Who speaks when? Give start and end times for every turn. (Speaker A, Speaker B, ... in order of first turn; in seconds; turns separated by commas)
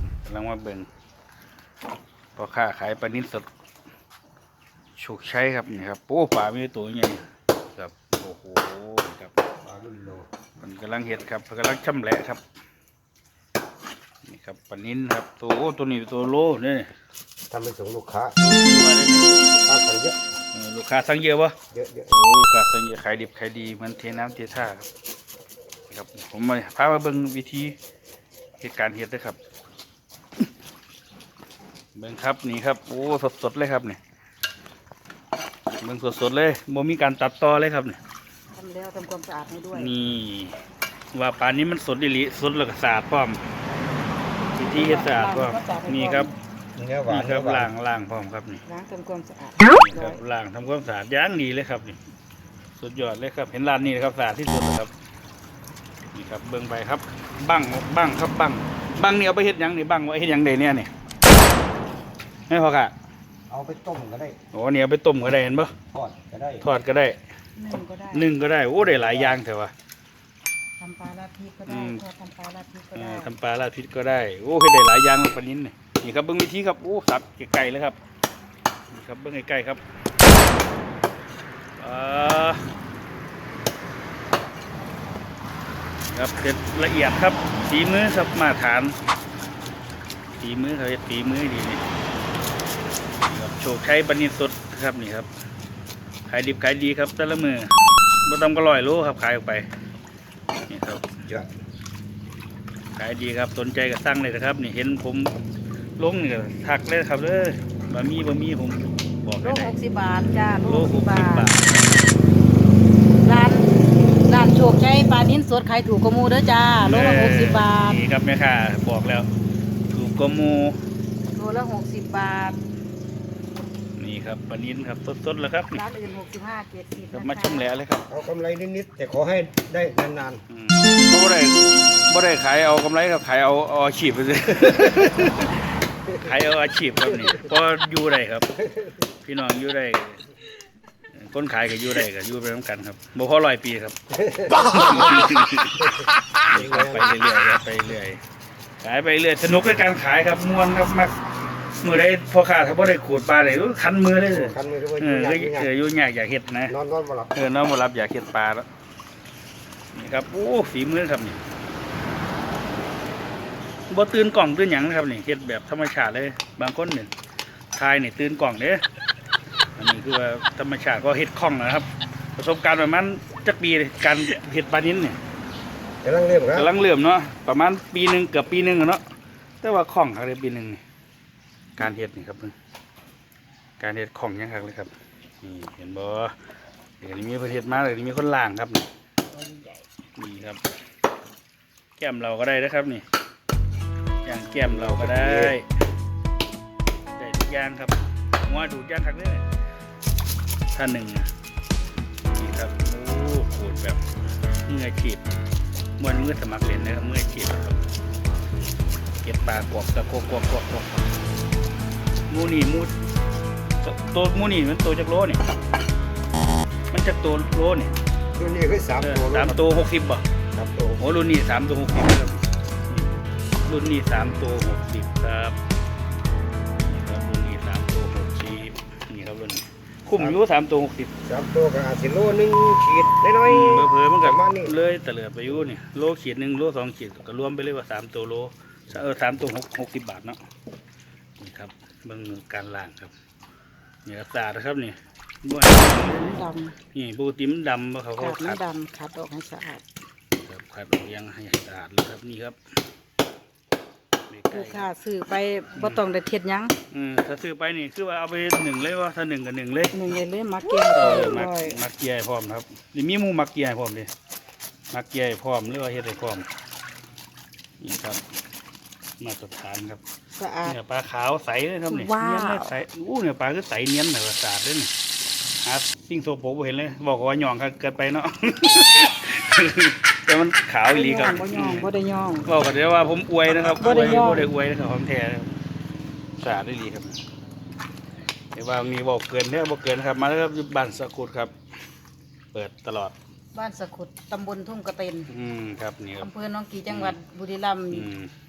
Speaker A: 0.2-0.9, Speaker A: 2.4-3.5, Speaker A: 5.0-7.2, Speaker A: 7.8-9.4, Speaker B: 9.6-10.3, Speaker A: 10.6-12.4, Speaker A: 14.2-16.9, Speaker B: 17.5-18.4, Speaker A: 18.4-19.4, Speaker B: 19.4-20.2, Speaker A: 20.5-21.6, Speaker B: 21.7-22.1, Speaker A: 22.1-24.9, Speaker A: 25.9-27.8, Speaker A: 28.6-29.4, Speaker A: 31.9-34.0, Speaker A: 35.8-38.0, Speaker C: 38.5-40.0, Speaker A: 39.7-40.6, Speaker A: 41.1-43.4, Speaker C: 44.5-46.3, Speaker A: 44.5-46.3, Speaker B: 46.8-47.7, Speaker A: 47.1-48.6, Speaker C: 48.7-50.2, Speaker A: 49.7-52.0, Speaker A: 52.8-54.9, Speaker A: 56.1-60.9, Speaker A: 62.5-62.9, Speaker B: 63.5-64.4, Speaker A: 64.5-65.8, Speaker B: 65.9-66.7, Speaker A: 66.6-67.2, Speaker C: 67.6-68.3, Speaker A: 68.1-69.7, Speaker B: 68.8-69.4, Speaker C: 70.8-73.3, Speaker A: 71.7-72.0, Speaker A: 73.0-78.0, Speaker A: 78.9-79.8, Speaker A: 81.8-82.7, Speaker A: 86.1-89.0, Speaker A: 90.4-91.8, Speaker A: 93.2-95.3, Speaker A: 96.3-99.7, Speaker A: 100.7-101.1, Speaker A: 103.0-105.4, Speaker A: 106.0-109.8, Speaker C: 109.4-111.5, Speaker A: 110.6-111.9, Speaker C: 113.2-113.7, Speaker C: 114.2-118.0, Speaker A: 116.8-119.3, Speaker A: 119.9-120.8, Speaker C: 121.3-122.6, Speaker A: 124.0-125.8, Speaker C: 125.7-127.7, Speaker A: 127.1-128.1, Speaker B: 128.1-130.4, Speaker A: 130.5-138.5, Speaker B: 138.6-139.0, Speaker A: 139.2-140.2, Speaker A: 141.1-144.0, Speaker B: 144.1-147.1, Speaker A: 144.5-148.2, Speaker A: 148.8-151.2, Speaker A: 151.8-156.8, Speaker B: 154.3-155.7, Speaker B: 156.7-157.3, Speaker A: 157.3-158.7, Speaker A: 159.9-161.4, Speaker A: 163.9-167.1, Speaker A: 167.8-168.8, Speaker A: 169.8-175.2, Speaker B: 176.0-176.7, Speaker A: 176.6-179.0, Speaker A: 179.6-180.8, Speaker A: 181.8-182.6, Speaker A: 183.8-186.3, Speaker A: 187.0-188.9, Speaker C: 189.3-189.8, Speaker A: 190.2-190.6, Speaker A: 192.0-193.1, Speaker A: 194.2-195.7, Speaker B: 194.6-195.6, Speaker A: 197.2-199.5, Speaker A: 200.7-201.3, Speaker A: 202.4-204.0, Speaker A: 204.7-205.2, Speaker A: 206.0-207.8, Speaker A: 209.2-211.1, Speaker A: 212.3-212.9, Speaker A: 213.8-215.4, Speaker A: 216.9-217.9, Speaker B: 218.3-219.6, Speaker A: 219.0-220.2, Speaker B: 220.5-221.0, Speaker A: 221.0-225.6, Speaker A: 226.8-231.1, Speaker B: 231.2-234.8, Speaker A: 233.4-240.4, Speaker A: 241.4-243.1, Speaker A: 244.1-248.6, Speaker C: 245.9-246.8, Speaker C: 248.2-249.8, Speaker A: 250.4-252.6, Speaker A: 254.3-254.9, Speaker C: 254.5-256.7, Speaker A: 255.7-256.0, Speaker A: 256.9-260.0, Speaker C: 259.9-261.8, Speaker A: 260.8-264.1, Speaker A: 264.9-266.5, Speaker A: 267.8-268.2, Speaker A: 269.2-270.0, Speaker C: 270.4-270.8, Speaker A: 270.6-274.9, Speaker C: 271.9-272.8, Speaker A: 275.6-281.9, Speaker C: 280.9-282.5, Speaker A: 282.4-285.5, Speaker C: 283.6-284.5, Speaker A: 286.4-287.2, Speaker A: 288.5-291.5, Speaker A: 292.5-293.1, Speaker C: 293.5-295.3, Speaker A: 295.3-296.3, Speaker C: 296.2-298.1, Speaker A: 296.9-297.2, Speaker A: 297.9-298.3